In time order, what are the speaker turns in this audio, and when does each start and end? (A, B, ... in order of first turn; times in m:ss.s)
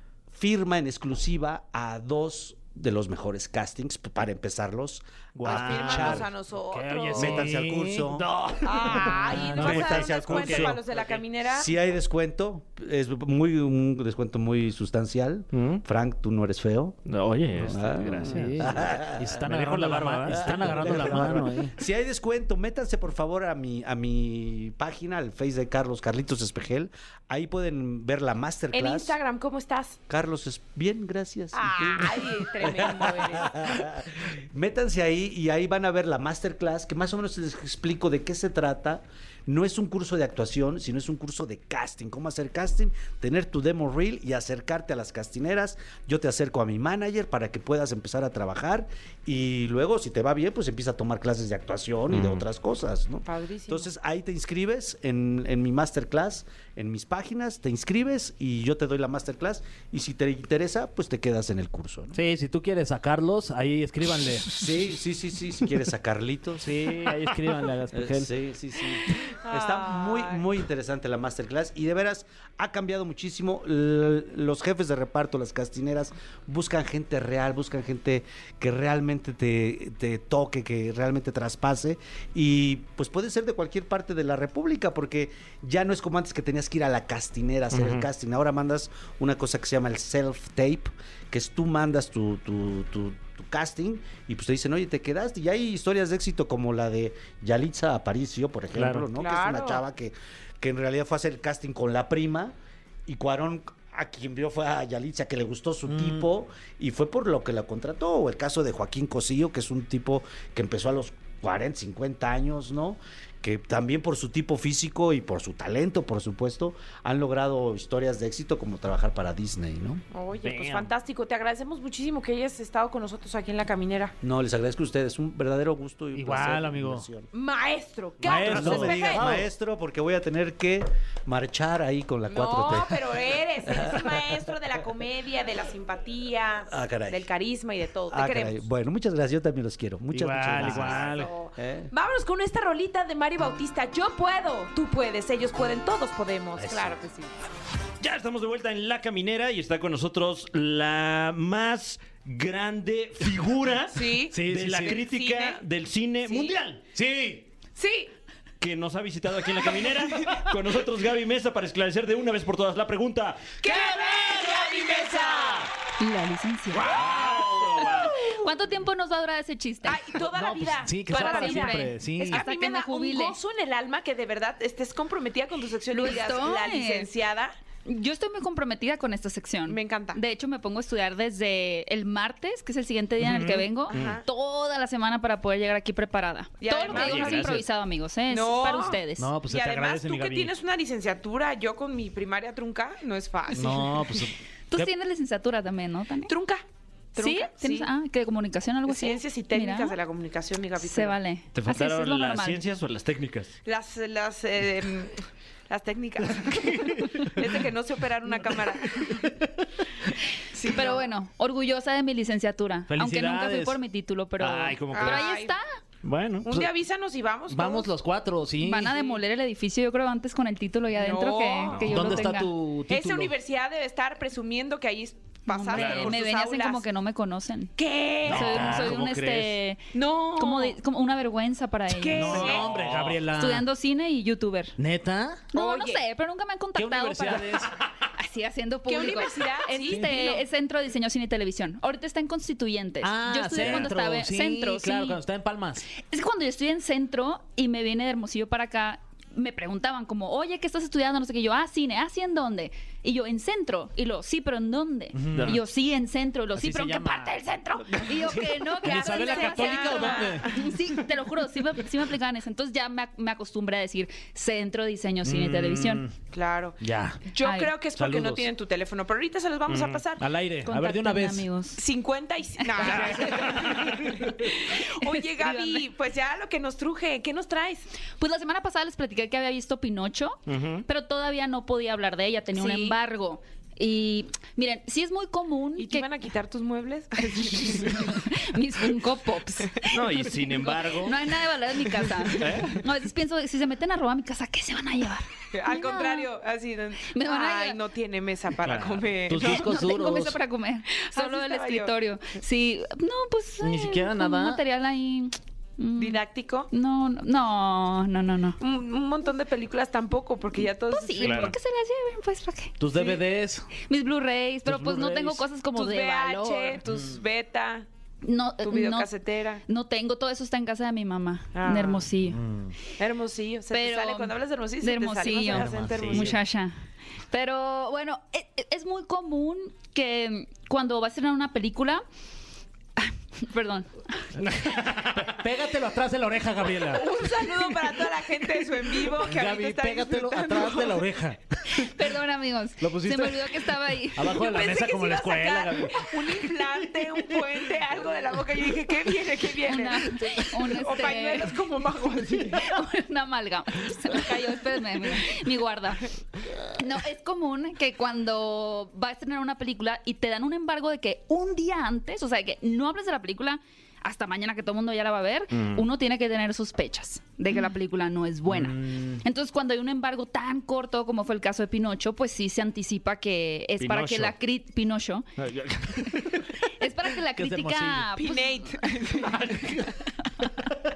0:00.3-0:06.3 A
0:05.4-0:06.3 B
0:05.5-0:07.5 C
0:05.9-0:10.0 D
0:07.2-0:08.3 A
0:08.4-0:11.2 B
0:08.6-0:11.7 C
0:09.1-0:17.0 A
0:15.5-0:15.8 B
0:17.1-0:21.4 B
0:17.6-0:19.5 A
0:18.2-0:21.8 D
0:20.3-0:29.2 A
0:28.7-0:30.0 C
0:30.1-1:02.2 A
0:31.5-0:33.8 C
0:52.1-0:52.4 B
0:53.3-0:53.9 C
1:02.1-1:04.6 D
1:04.5-1:07.0 A
1:06.6-1:08.3 D
1:07.9-1:42.6 A
1:09.3-1:10.4 C
1:27.7-1:28.1 B
1:38.8-1:39.1 D
1:39.2-1:39.8 C
1:43.1-2:00.0 A
1:45.9-1:46.2 D
2:00.1-2:04.2 C
2:00.4-2:00.9 B
2:04.2-2:07.3 A
2:06.2-2:07.1 D
2:07.3-2:09.3 C
2:08.2-2:09.5 D
2:08.3-2:14.5 A
2:08.3-2:09.0 B
2:12.3-2:18.6 C
2:16.7-2:17.3 A
2:18.1-2:21.9 A
2:20.1-2:21.3 D
2:20.6-2:21.0 B
2:20.7-2:27.3 C
2:28.0-2:36.9 B
2:33.9-2:35.6 C
2:34.3-2:35.0 D
2:36.2-2:36.6 C
2:36.9-2:37.4 D
2:37.8-2:38.1 C
2:38.6-2:45.6 B
2:39.8-2:40.4 C
2:43.6-2:45.7 C
2:46.0-2:47.0 E
2:46.8-2:48.4 C
2:46.8-2:48.2 B
2:48.0-2:50.0 E
2:49.8-2:57.5 C
2:50.2-2:52.5 D
2:51.1-2:53.4 E
2:55.9-2:57.1 E
2:57.8-3:09.4 E
2:59.7-3:00.2 C
3:03.2-3:04.2 B
3:03.9-3:04.2 C
3:06.6-3:07.6 C
3:06.8-3:07.6 B
3:08.3-3:14.2 C
3:09.2-3:10.5 D
3:13.5-3:14.9 D
3:14.7-3:16.3 E
3:16.3-3:16.6 C
3:17.2-3:17.9 C
3:17.2-3:20.0 E
3:18.9-3:21.2 C
3:20.8-3:22.6 E
3:21.5-3:23.6 B
3:23.6-3:29.3 C
3:26.5-3:27.2 B
3:30.5-3:31.1 C
3:30.6-3:35.6 E
3:32.9-3:33.8 D
3:34.4-3:35.3 B
3:34.9-3:35.6 C
3:36.0-3:36.5 B
3:36.4-3:37.9 C
3:37.5-3:38.9 D
3:38.6-3:42.5 E
3:38.9-3:39.2 C
3:41.0-3:42.0 C
3:41.7-3:42.2 B
3:41.8-3:43.3 D
3:42.9-3:46.8 C
3:45.5-3:47.7 E
3:45.7-3:46.2 B
3:47.8-3:48.9 C
3:48.3-3:49.4 D
3:48.3-3:52.5 E
3:48.3-3:49.5 B
3:49.9-3:50.8 C
3:51.9-3:52.7 C
3:52.1-3:53.7 D
3:52.4-3:53.2 B
3:53.3-3:54.8 E
3:54.8-3:55.5 D
3:55.5-3:57.6 E
3:55.5-3:56.0 C
3:56.8-3:57.7 D
3:58.2-4:05.2 E
3:58.9-4:00.4 C
4:03.0-4:05.9 D
4:06.0-4:26.0 E
4:15.2-4:15.6 D
4:15.4-4:15.6 B
4:16.6-4:17.4 D
4:17.9-4:20.6 D
4:18.8-4:20.7 C
4:25.2-4:26.1 D
4:26.3-4:26.8 C
4:26.8-4:27.2 D
4:27.3-4:30.2 C
4:27.4-4:27.8 E
4:28.0-4:28.5 D
4:29.7-4:30.0 B
4:30.2-4:31.5 D
4:30.6-4:31.8 E
4:31.8-4:37.9 C
4:32.8-4:33.5 E
4:32.9-4:33.2 D
4:35.0-4:35.9 E
4:38.2-4:46.1 E
4:40.5-4:40.8 B
4:42.6-4:43.0 C
4:45.8-4:48.2 C
4:47.3-4:56.3 E
4:49.8-4:51.4 B
4:52.4-4:52.8 B
4:55.5-4:59.8 C
4:57.0-4:57.8 E
4:58.6-4:59.0 B
4:59.3-5:00.4 D
4:59.4-5:08.6 E
5:01.1-5:01.9 C
5:03.6-5:04.6 D
5:06.0-5:06.7 C
5:08.6-5:11.5 C
5:10.9-5:12.8 E
5:11.2-5:11.6 B
5:12.8-5:13.7 D
5:13.0-5:13.2 C
5:13.8-5:16.8 E
5:14.6-5:15.5 D
5:15.7-5:17.9 C
5:18.2-5:19.1 E
5:18.6-5:19.6 C
5:19.7-5:22.4 E
5:21.5-5:22.1 C
5:22.3-5:22.7 D
5:23.0-5:26.4 C
5:23.7-5:26.7 E
5:25.5-5:26.4 D
5:27.3-5:32.0 E
5:33.0-5:34.0 E
5:34.4-5:35.3 B
5:35.1-5:37.2 D
5:36.9-5:41.1 C
5:39.2-5:42.0 D
5:41.8-5:44.4 E
5:42.8-5:47.4 D
5:44.3-5:52.8 C
5:49.6-5:51.6 E
5:52.6-5:56.1 E
5:56.7-6:15.3 E
6:05.5-6:05.9 B
6:08.5-6:09.2 D
6:13.8-6:14.4 B
6:15.4-6:16.3 B
6:16.8-6:18.8 E
6:17.4-6:18.1 D
6:18.2-6:19.7 C